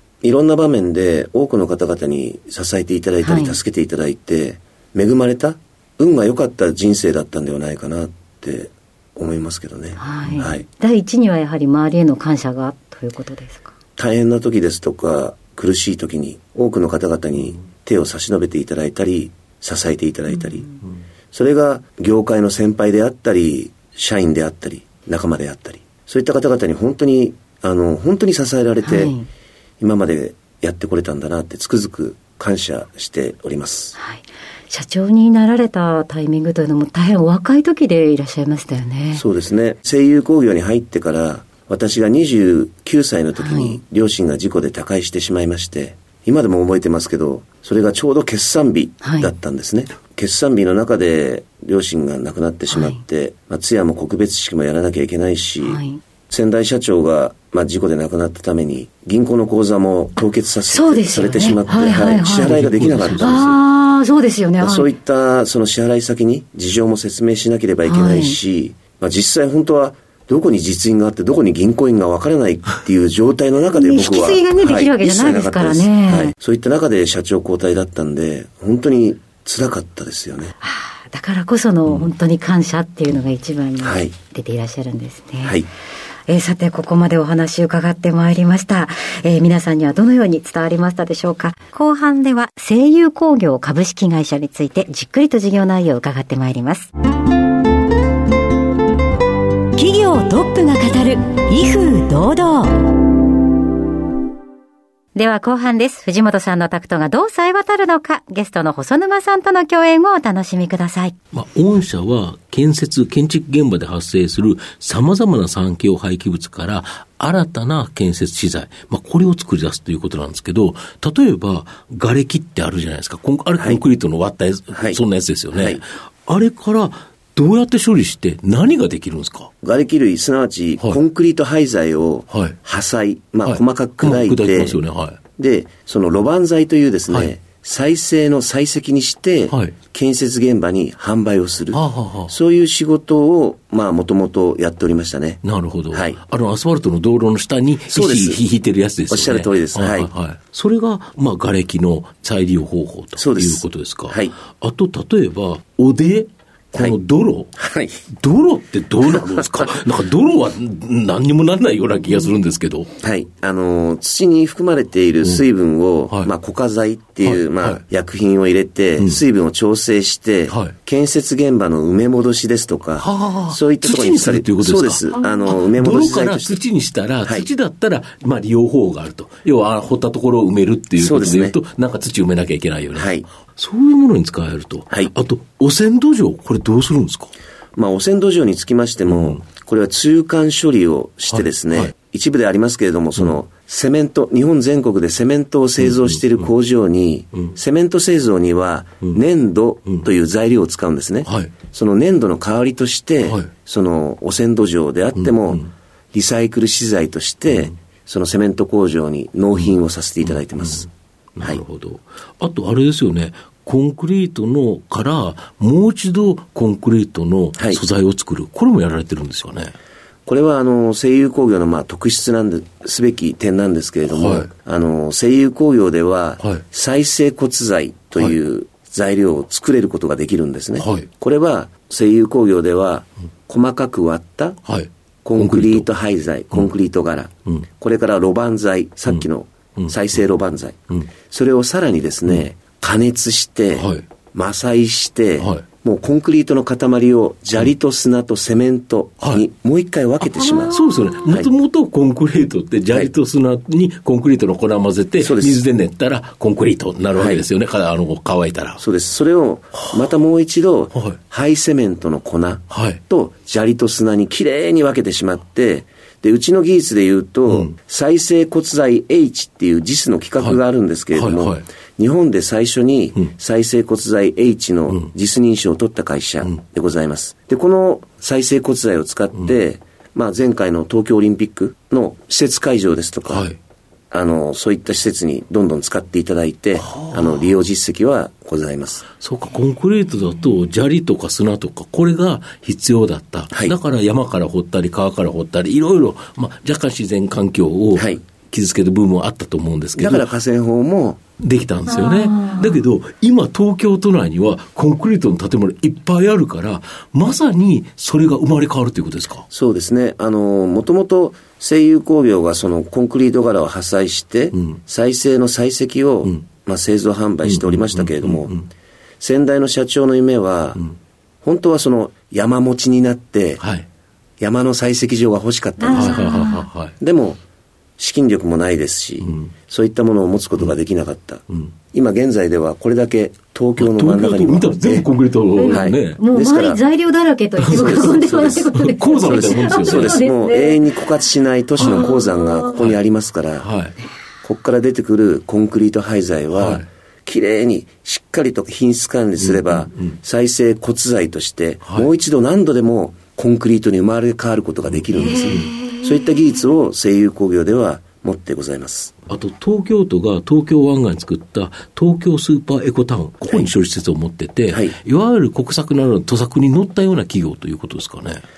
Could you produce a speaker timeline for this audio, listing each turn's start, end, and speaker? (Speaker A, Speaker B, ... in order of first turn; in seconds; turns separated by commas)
Speaker A: 0.2-10.6, Speaker B: 3.2-3.6, Speaker B: 10.0-13.7, Speaker A: 14.0-20.8, Speaker A: 21.3-29.1, Speaker B: 28.8-29.3, Speaker A: 29.8-34.0, Speaker B: 34.0-39.2, Speaker A: 39.1-63.5, Speaker B: 43.4-43.8, Speaker B: 49.0-49.3, Speaker B: 52.7-53.0, Speaker B: 55.6-56.0, Speaker B: 60.7-62.5, Speaker C: 62.1-63.6, Speaker B: 63.1-64.9, Speaker A: 64.6-80.5, Speaker B: 67.8-68.4, Speaker B: 73.7-76.3, Speaker B: 80.6-85.6, Speaker A: 83.8-84.1, Speaker A: 85.4-85.7, Speaker B: 86.3-96.9, Speaker B: 99.7-102.7, Speaker B: 105.1-111.1, Speaker C: 111.3-129.5, Speaker A: 123.6-123.8, Speaker A: 124.7-125.0, Speaker A: 125.5-125.8, Speaker A: 129.6-134.8, Speaker C: 132.3-132.6, Speaker C: 133.4-135.2, Speaker A: 135.4-146.2, Speaker C: 139.5-139.7, Speaker C: 141.7-142.3, Speaker C: 145.4-157.5, Speaker A: 147.9-148.4, Speaker A: 149.1-150.1, Speaker A: 153.2-154.3, Speaker A: 157.6-158.0, Speaker C: 158.2-162.9, Speaker A: 159.0-159.7, Speaker A: 163.0-176.6, Speaker C: 167.2-167.8, Speaker C: 170.5-170.7, Speaker C: 173.0-187.3, Speaker A: 181.0-181.6, Speaker A: 182.9-183.3, Speaker A: 187.7-210.9, Speaker C: 189.1-189.4, Speaker C: 191.3-191.9, Speaker C: 195.8-196.5, Speaker C: 201.2-201.5, Speaker C: 203.2-203.5, Speaker C: 205.2-205.7, Speaker C: 209.6-219.7, Speaker A: 220.2-234.6, Speaker C: 224.1-224.5, Speaker C: 230.8-231.1, Speaker C: 234.6-235.9, Speaker A: 235.2-251.5, Speaker C: 239.8-240.2, Speaker C: 243.7-244.0, Speaker C: 250.2-258.8, Speaker A: 255.2-255.6, Speaker A: 257.1-257.4, Speaker A: 258.8-283.5, Speaker C: 262.7-263.0, Speaker C: 267.5-267.7, Speaker C: 271.1-271.6, Speaker C: 283.3-283.6, Speaker A: 284.1-289.0, Speaker C: 286.8-287.5, Speaker C: 289.2-300.3, Speaker A: 293.5-293.8, Speaker A: 297.9-298.2, Speaker A: 299.9-301.2, Speaker C: 301.4-309.4, Speaker B: 302.1-302.6, Speaker A: 309.5-318.5, Speaker C: 317.4-318.6, Speaker A: 319.2-320.8, Speaker A: 321.4-323.6, Speaker C: 323.6-323.9, Speaker A: 324.4-326.4, Speaker B: 325.8-326.6, Speaker C: 325.9-326.9, Speaker A: 327.0-327.4, Speaker A: 328.0-335.1, Speaker C: 329.2-329.5, Speaker C: 333.8-336.2, Speaker B: 335.5-340.9, Speaker A: 335.7-336.8, Speaker C: 337.6-340.2, Speaker A: 337.6-343.7, Speaker C: 341.8-342.2, Speaker B: 342.2-342.6, Speaker C: 342.7-343.0, Speaker C: 343.6-343.9, Speaker A: 344.4-359.1, Speaker C: 346.5-346.8, Speaker C: 349.4-350.2, Speaker C: 354.9-355.8, Speaker C: 359.3-368.4, Speaker A: 363.4-363.7, Speaker A: 364.7-365.0